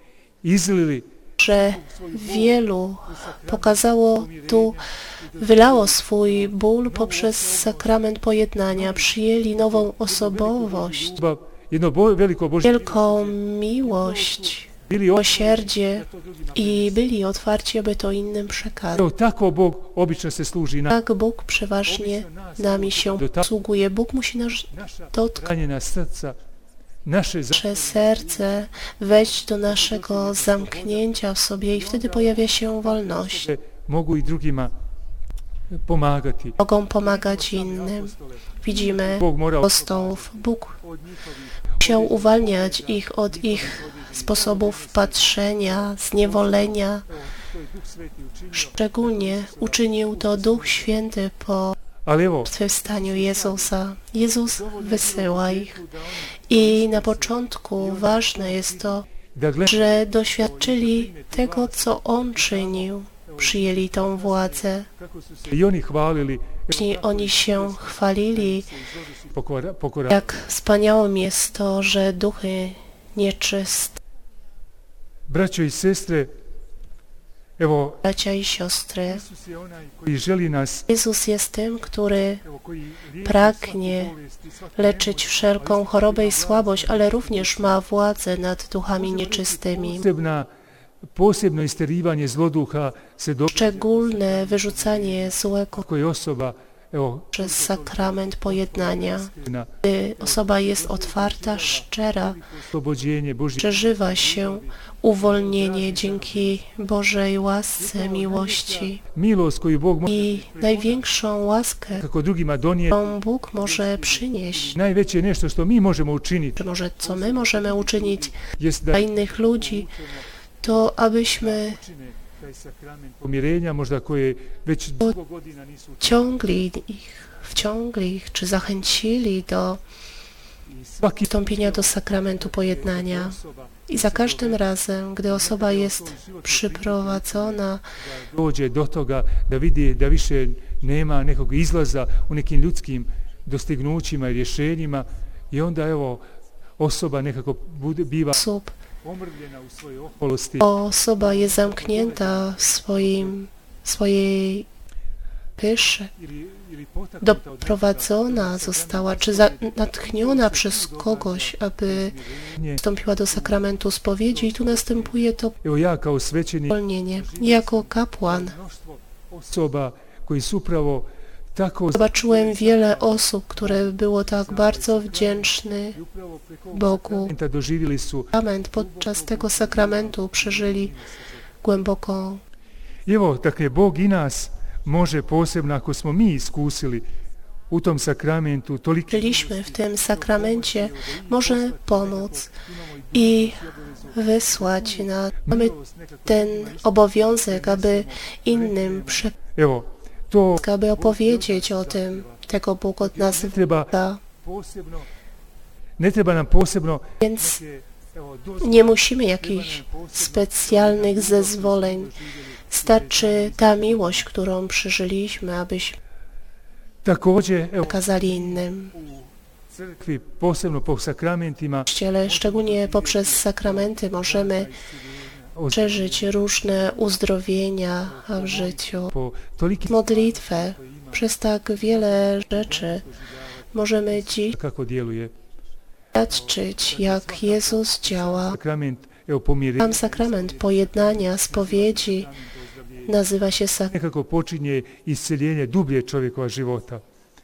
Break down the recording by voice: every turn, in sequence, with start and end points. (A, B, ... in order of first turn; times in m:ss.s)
0:00.4-0:07.9 A
0:01.4-0:04.8 B
0:05.4-0:11.2 B
0:08.7-0:17.1 A
0:12.6-0:19.1 B
0:18.9-0:21.0 A
0:20.9-0:25.5 B
0:21.9-0:23.5 A
0:24.8-0:26.4 A
0:27.0-0:28.5 A
0:27.5-0:33.5 B
0:29.3-0:31.1 A
0:31.8-0:34.7 A
0:35.8-0:45.2 A
0:36.6-0:40.8 B
0:41.8-0:47.1 B
0:46.2-0:50.9 A
0:48.5-0:51.8 B
0:52.1-0:53.7 A
0:52.4-0:55.8 B
0:54.5-1:10.3 A
0:56.5-0:59.0 B
0:59.6-1:04.9 B
1:06.7-1:08.7 B
1:10.1-1:14.0 B
1:15.3-1:16.3 A
1:17.6-1:18.0 A
1:18.0-1:19.2 B
1:19.1-1:20.9 A
1:20.9-1:22.4 B
1:22.4-1:27.8 A
1:23.2-1:24.1 B
1:24.8-1:30.1 B
1:29.0-1:30.5 A
1:31.1-1:46.5 A
1:33.5-1:35.8 B
1:37.3-1:42.4 B
1:43.6-1:49.0 B
1:47.8-1:51.1 A
1:50.1-1:52.0 B
1:52.0-2:00.2 A
1:52.9-1:54.8 B
1:56.6-1:58.3 B
1:58.9-1:59.9 B
2:00.6-2:01.8 B
2:01.4-2:06.5 A
2:06.0-2:09.8 B
2:10.8-2:14.6 A
2:11.2-2:17.8 B
2:15.3-2:26.2 A
2:26.8-2:28.4 A
2:28.3-2:28.8 B
2:29.1-2:30.7 A
2:30.6-2:34.7 B
2:31.2-2:33.3 A
2:35.6-2:36.1 B
2:36.2-2:42.8 A
2:37.2-2:42.2 B
2:42.8-2:45.6 B
2:44.3-3:01.3 A
2:46.7-2:48.6 B
2:51.9-2:56.0 B
2:56.7-2:57.3 B
2:58.3-3:00.9 B
3:01.6-3:02.4 B
3:03.1-3:07.1 A
3:07.7-3:22.4 A
3:09.1-3:12.5 B
3:13.1-3:15.7 B
3:16.3-3:19.3 B
3:20.6-3:24.2 B
3:23.0-3:23.9 A
3:24.4-3:25.1 A
3:26.0-3:34.3 A
3:27.2-3:27.6 B
3:28.6-3:32.1 B
3:32.7-3:36.0 B
3:37.0-3:38.6 A
3:37.8-3:38.9 B
3:39.1-3:46.9 A
3:41.8-3:44.7 B
3:45.7-3:49.1 B
3:48.2-3:51.2 A
3:49.8-3:53.0 B
3:51.8-3:55.3 A
3:53.7-3:54.6 B
3:56.1-3:58.6 B
3:56.6-4:03.1 A
3:59.8-4:02.3 B
4:03.0-4:03.9 B
4:03.9-4:07.0 A